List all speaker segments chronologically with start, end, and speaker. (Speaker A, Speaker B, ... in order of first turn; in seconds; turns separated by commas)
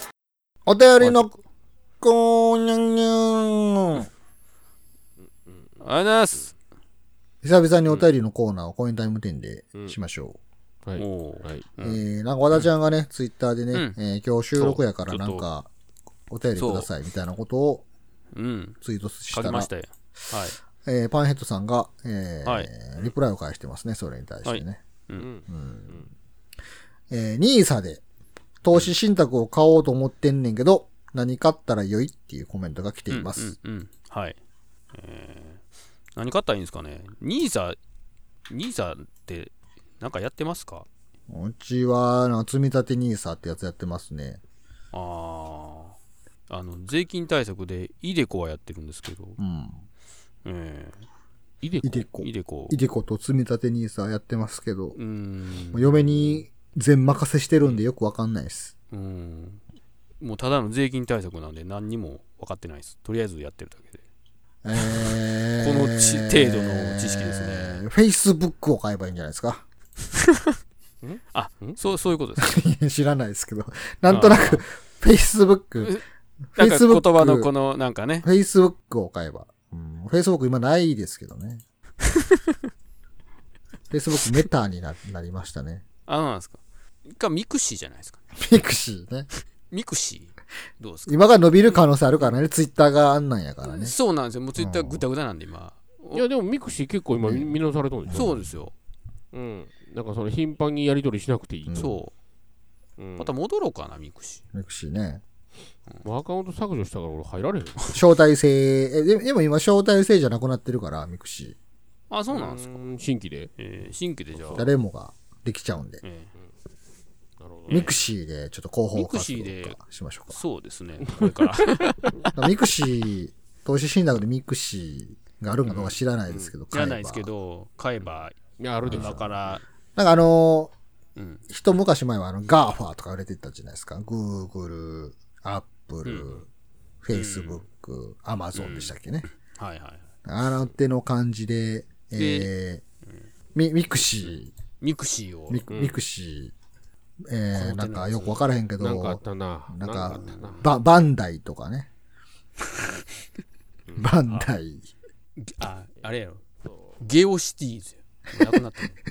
Speaker A: 0.7-1.3, Speaker B: 1.0-1.3, Speaker A: 2.0-4.1, Speaker B: 5.2-5.8, Speaker C: 5.8-6.5, Speaker A: 7.4-10.4, Speaker B: 10.8-11.6, Speaker C: 11.0-12.0, Speaker A: 11.8-15.7, Speaker C: 13.7-14.0, Speaker C: 14.6-15.5, Speaker A: 16.3-17.8, Speaker C: 16.6-16.9, Speaker C: 18.3-18.8, Speaker A: 18.8-19.7, Speaker C: 19.3-20.6, Speaker A: 20.8-24.8, Speaker C: 22.4-23.1, Speaker C: 24.4-25.3, Speaker B: 25.2-26.1, Speaker A: 25.5-26.1, Speaker A: 27.1-28.0, Speaker A: 28.6-33.5, Speaker C: 33.1-34.4, Speaker C: 34.9-35.6, Speaker C: 36.2-37.8, Speaker C: 38.5-40.9, Speaker A: 41.3-44.4, Speaker C: 44.9-46.0, Speaker C: 46.5-49.4, Speaker A: 49.4-49.8, Speaker C: 50.4-51.1, Speaker B: 51.6-52.0, Speaker A: 51.8-55.0, Speaker C: 52.2-52.8, Speaker C: 55.0-56.5, Speaker A: 55.7-58.7, Speaker C: 58.9-59.6, Speaker C: 60.2-64.0, Speaker A: 64.6-69.6, Speaker C: 64.7-67.8, Speaker B: 71.0-71.8, Speaker C: 71.3-72.6, Speaker A: 72.4-76.0, Speaker C: 74.1-74.6, Speaker A: 76.5-77.5, Speaker C: 76.6-78.3, Speaker A: 78.2-81.6, Speaker A: 83.9-85.8, Speaker C: 86.1-88.2, Speaker A: 88.4-89.3, Speaker C: 89.7-92.4, Speaker A: 91.1-94.0, Speaker C: 93.6-96.2, Speaker A: 94.6-95.0, Speaker B: 96.1-98.4, Speaker A: 97.2-98.4, Speaker C: 98.1-98.7, Speaker B: 99.3-102.0, Speaker A: 101.7-102.0, Speaker C: 101.7-102.1, Speaker B: 103.0-103.3, Speaker C: 103.2-104.4, Speaker A: 104.5-105.2, Speaker B: 106.0-107.9, Speaker A: 107.9-111.6, Speaker C: 112.1-112.8, Speaker B: 112.3-113.5, Speaker C: 113.6-114.7, Speaker B: 114.3-114.7, Speaker A: 114.5-116.0, Speaker C: 116.0-116.3, Speaker B: 117.4-117.9, Speaker C: 117.7-118.0, Speaker A: 117.7-120.4, Speaker C: 118.9-119.8, Speaker C: 120.3-122.3, Speaker B: 121.0-122.2, Speaker A: 122.4-127.3, Speaker C: 125.7-126.0, Speaker C: 126.7-129.6, Speaker B: 128.6-129.3, Speaker A: 128.8-129.2, Speaker A: 129.9-130.7, Speaker C: 131.2-131.4, Speaker A: 131.5-136.4, Speaker C: 136.0-136.5, Speaker A: 137.0-139.2, Speaker C: 137.1-137.6, Speaker C: 138.5-139.0, Speaker C: 139.5-140.1, Speaker A: 140.2-142.8, Speaker C: 142.1-142.5, Speaker A: 143.5-144.5, Speaker C: 144.8-145.7, Speaker A: 145.5-146.5, Speaker B: 145.7-146.0, Speaker A: 147.2-151.9, Speaker C: 147.5-148.5, Speaker B: 148.8-150.7, Speaker C: 150.1-150.7, Speaker A: 153.9-154.9, Speaker C: 155.3-156.4, Speaker B: 156.6-157.0, Speaker C: 157.0-159.0